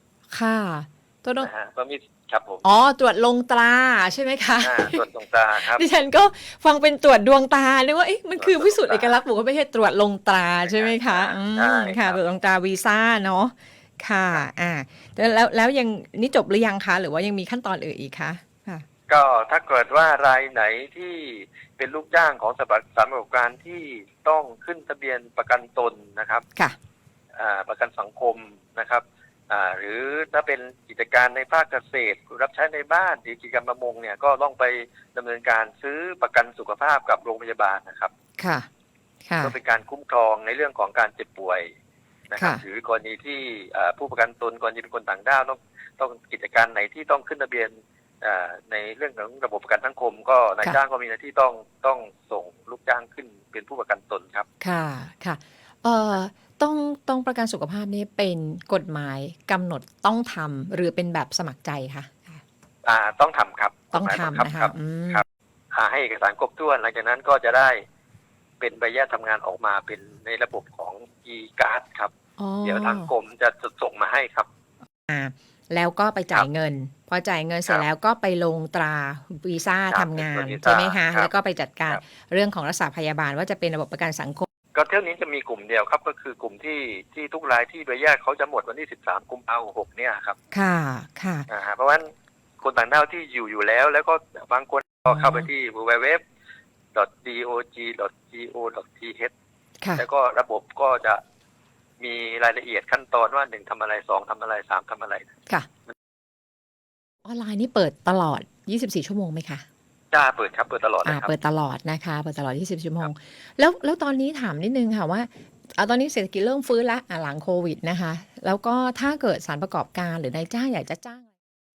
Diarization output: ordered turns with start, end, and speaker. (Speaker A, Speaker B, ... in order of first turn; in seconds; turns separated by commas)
Speaker A: 0.3-1.5, Speaker B: 1.4-2.6, Speaker A: 2.6-5.0, Speaker B: 4.6-5.8, Speaker A: 5.7-18.9, Speaker B: 8.4-9.2, Speaker B: 10.6-12.2, Speaker B: 19.1-26.4, Speaker B: 27.4-38.1, Speaker A: 38.4-38.7, Speaker A: 39.3-39.5, Speaker B: 39.4-41.7, Speaker B: 42.3-54.5, Speaker A: 54.6-62.4, Speaker B: 62.8-67.8, Speaker A: 63.9-65.2, Speaker B: 68.6-72.1, Speaker A: 72.4-73.1, Speaker B: 72.6-74.5, Speaker A: 75.1-84.5, Speaker B: 79.9-81.3, Speaker B: 84.7-90.4, Speaker A: 90.5-91.5, Speaker B: 91.5-92.1, Speaker B: 92.6-96.2, Speaker A: 95.1-95.5, Speaker B: 97.0-99.3, Speaker B: 100.0-101.2, Speaker B: 102.0-105.3, Speaker A: 107.2-109.7, Speaker B: 110.1-111.3, Speaker A: 111.0-121.3